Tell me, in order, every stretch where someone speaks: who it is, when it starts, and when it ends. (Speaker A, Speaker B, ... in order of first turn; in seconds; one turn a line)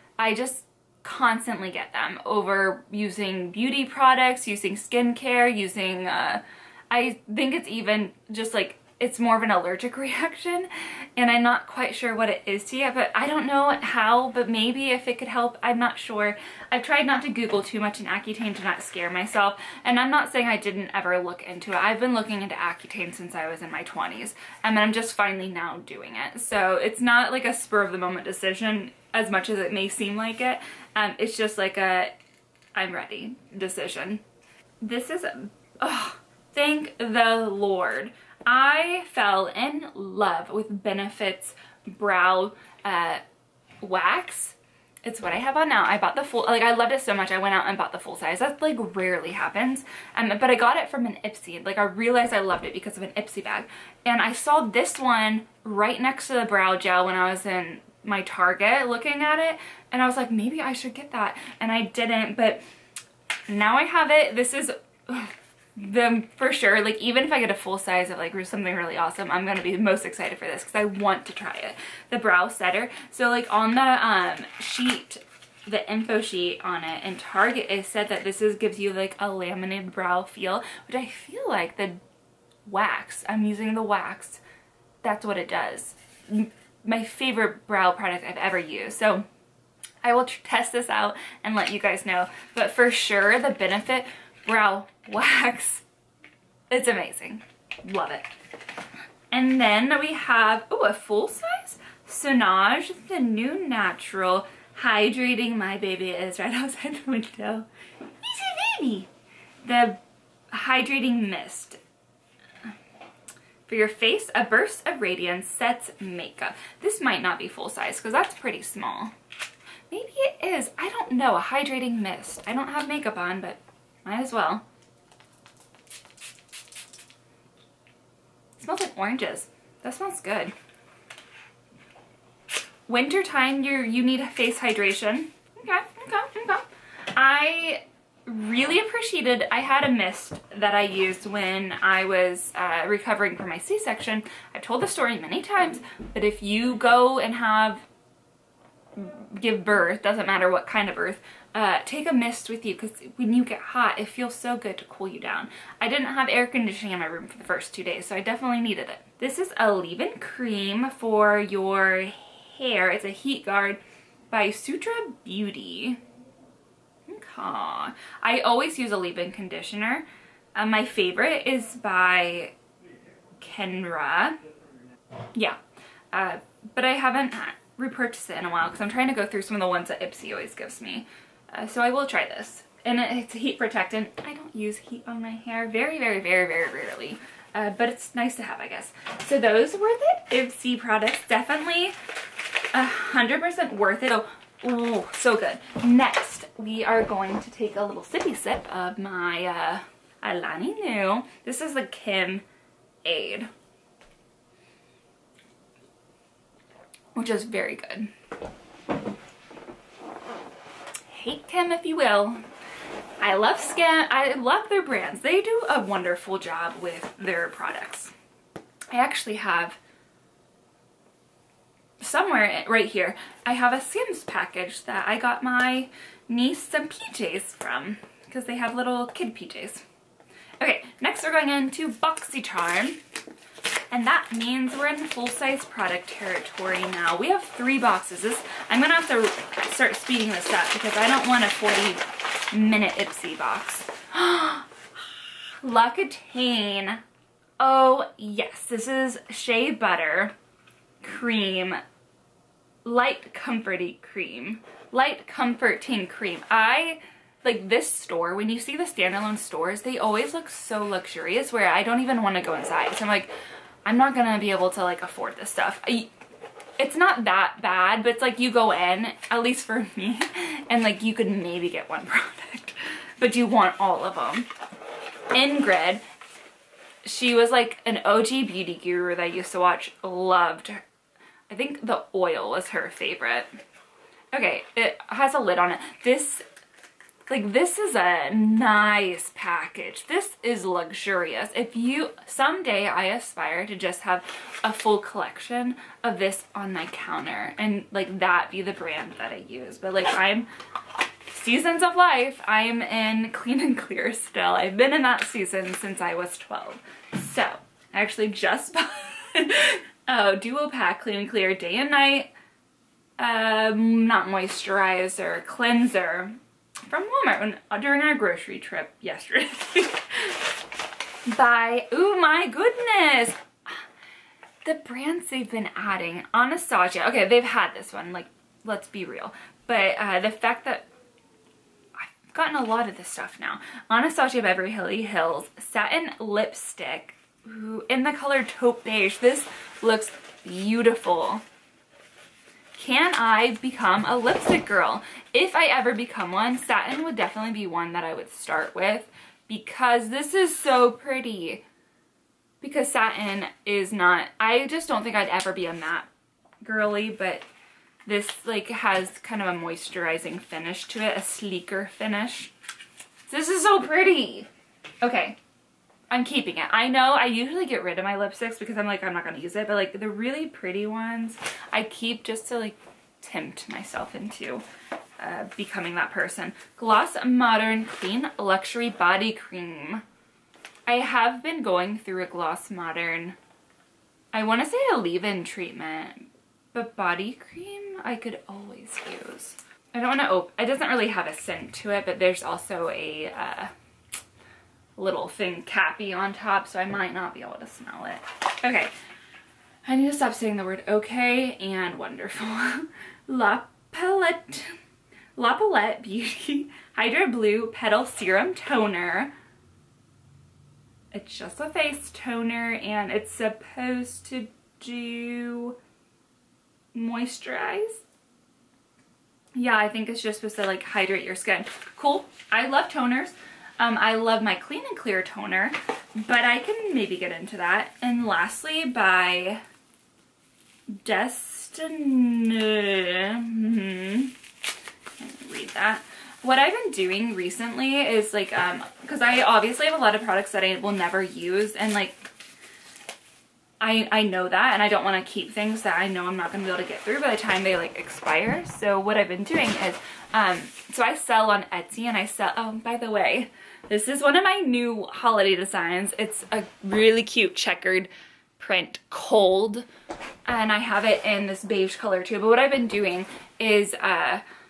Speaker A: 0.2-32.1
Speaker A: 32.7-34.2
Speaker A: 34.8-43.2
Speaker A: 43.8-62.6
Speaker A: 63.5-82.0
Speaker A: 82.7-84.4
Speaker A: 85.0-89.2
Speaker A: 90.0-95.8
Speaker A: 96.7-98.3
Speaker A: 99.3-107.7
Speaker A: 108.2-109.1
Speaker A: 109.6-110.0
Speaker A: 110.5-111.8
Speaker A: 113.7-119.1
Speaker A: 119.9-124.6
Speaker A: 128.6-130.5
Speaker A: 132.9-147.8
Speaker A: 148.9-166.0
Speaker A: 167.1-172.5
Speaker A: 173.4-174.4
Speaker A: 176.1-191.9
Speaker A: 192.7-202.4
Speaker A: 203.0-203.5
Speaker A: 207.1-208.1
Speaker A: 211.1-212.4
Speaker A: 213.2-218.1
Speaker A: 218.9-219.8
Speaker A: 222.0-229.8
Speaker A: 230.6-233.0
Speaker A: 233.9-244.8
Speaker A: 245.6-247.0
Speaker A: 247.6-250.3
Speaker A: 251.0-251.8
Speaker A: 252.8-263.3
Speaker A: 263.8-266.1
Speaker A: 266.8-274.5
Speaker A: 275.3-276.0
Speaker A: 277.0-280.8
Speaker A: 281.5-283.5
Speaker A: 284.3-286.4
Speaker A: 287.3-300.5
Speaker A: 301.3-312.3
Speaker A: 313.2-316.4
Speaker A: 316.9-320.4
Speaker A: 321.3-323.8
Speaker A: 324.6-330.9
Speaker A: 332.0-341.4
Speaker A: 342.7-351.6
Speaker A: 352.6-356.1
Speaker A: 356.6-357.4
Speaker A: 358.1-362.5
Speaker A: 363.3-364.5
Speaker A: 365.0-365.4
Speaker A: 366.1-374.6
Speaker A: 375.2-380.0
Speaker A: 380.9-383.4
Speaker A: 384.3-393.7
Speaker A: 395.0-398.9
Speaker A: 399.8-404.8
Speaker A: 405.4-409.3
Speaker A: 411.1-415.8
Speaker A: 416.9-418.0
Speaker A: 419.5-429.6
Speaker A: 430.9-434.3
Speaker A: 435.2-442.2
Speaker A: 443.8-459.9
Speaker A: 460.5-464.4